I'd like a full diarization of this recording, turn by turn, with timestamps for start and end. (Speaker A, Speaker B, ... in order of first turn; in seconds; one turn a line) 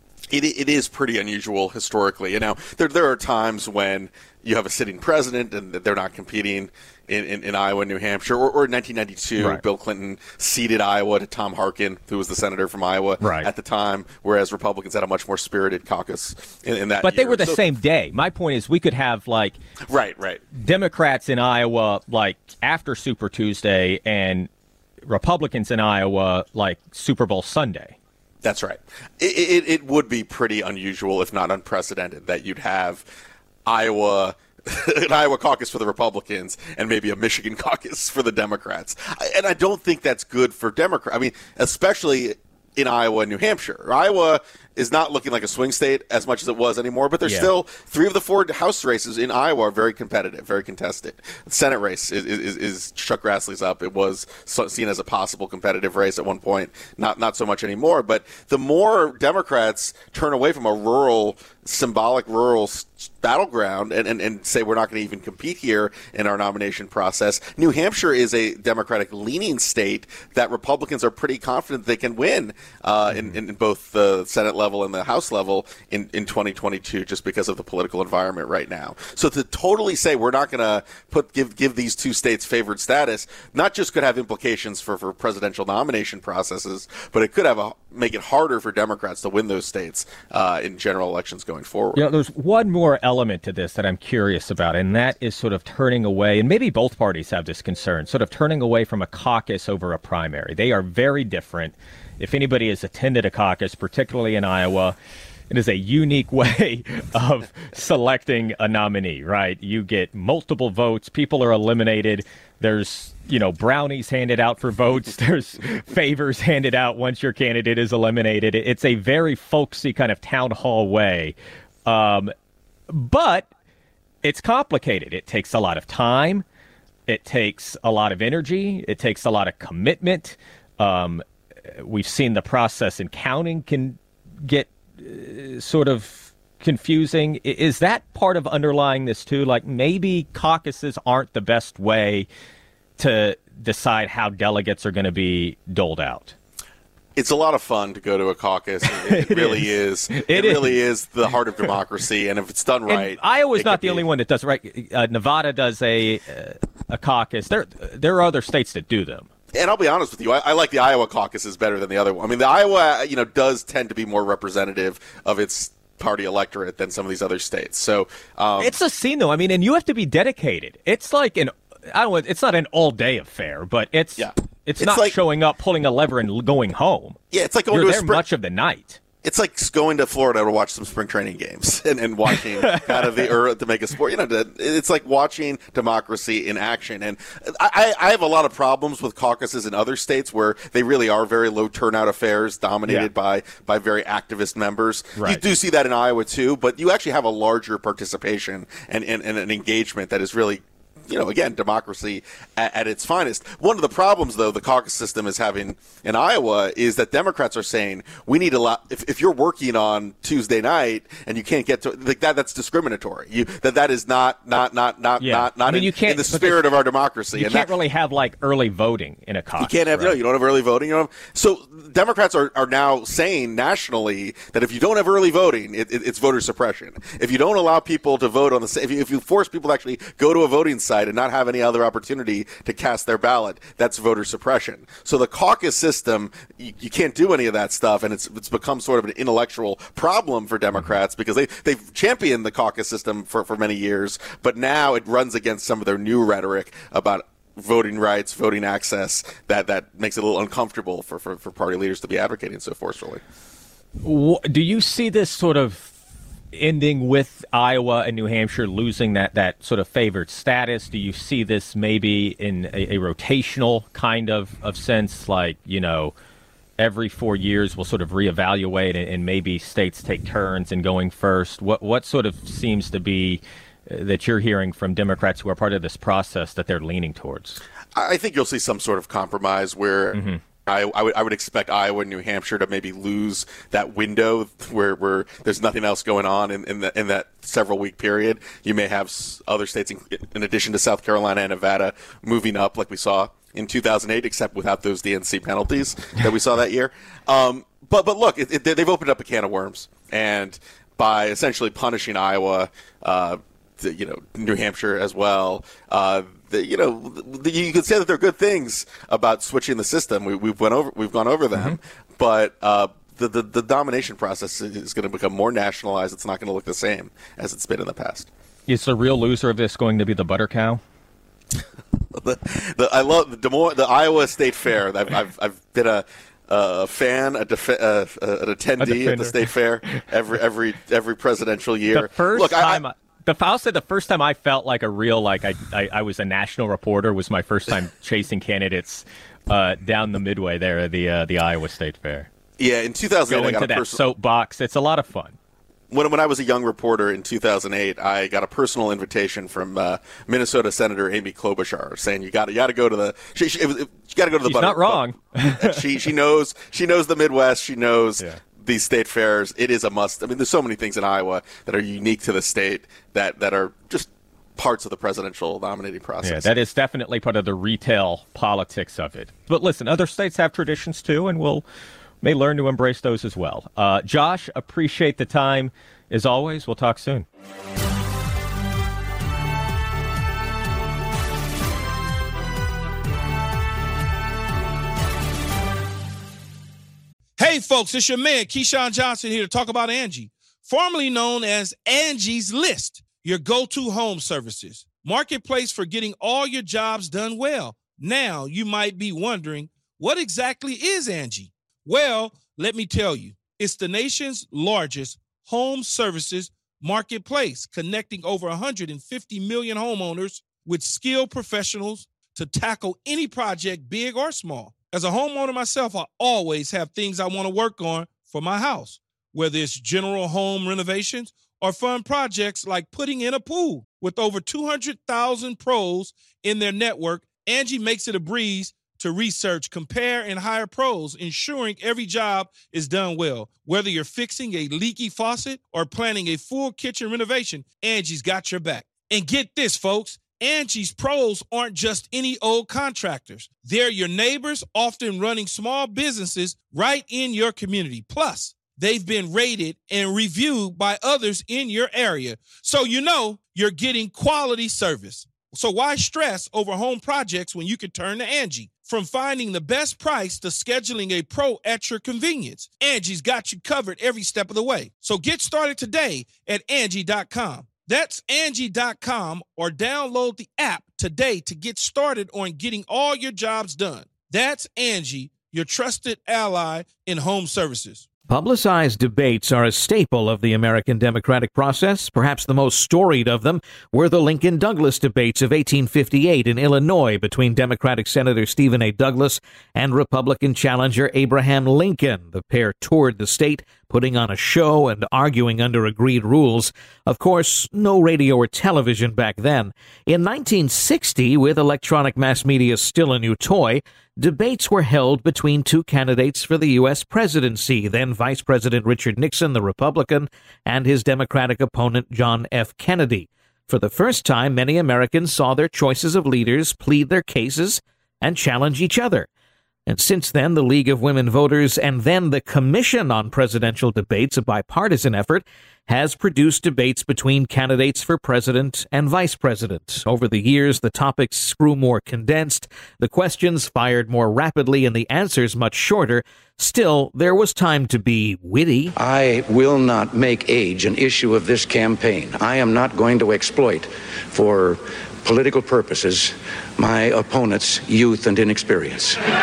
Speaker A: 0.3-17.6
Speaker B: 13.2-13.5
Speaker B: 17.0-19.6
Speaker A: 19.9-20.4
Speaker B: 20.6-24.5
Speaker B: 25.1-28.0
Speaker A: 28.4-33.1
Speaker A: 33.7-92.0
Speaker B: 47.2-47.5
Speaker B: 73.1-73.3
Speaker B: 92.0-105.0
Speaker B: 105.5-121.3
Speaker B: 121.9-122.3
Speaker B: 122.9-123.5
Speaker B: 124.2-126.5
Speaker B: 127.1-131.2
Speaker B: 131.8-142.3
Speaker B: 143.0-146.4
Speaker A: 147.2-154.1
Speaker B: 148.9-150.8
Speaker B: 152.9-159.3
Speaker A: 159.5-168.8
Speaker B: 168.6-177.2
Speaker A: 174.2-175.2
Speaker A: 177.3-178.2
Speaker B: 177.7-179.0
Speaker A: 179.2-217.7
Speaker B: 182.7-183.1
Speaker B: 195.2-195.4
Speaker B: 215.2-216.7
Speaker B: 217.3-220.2
Speaker A: 219.6-253.2
Speaker B: 254.0-255.9
Speaker B: 256.5-266.1
Speaker B: 266.8-277.6
Speaker A: 277.9-318.3
Speaker B: 280.1-280.4
Speaker B: 318.7-320.8
Speaker A: 322.1-332.8
Speaker B: 328.8-330.0
Speaker B: 331.9-342.3
Speaker A: 342.6-344.0
Speaker B: 343.3-345.4
Speaker A: 345.9-366.5
Speaker B: 354.5-355.8
Speaker B: 366.2-371.6
Speaker B: 372.2-377.3
Speaker C: 387.4-478.1
Speaker D: 478.3-519.3
Speaker D: 519.9-538.9
Speaker E: 539.0-549.2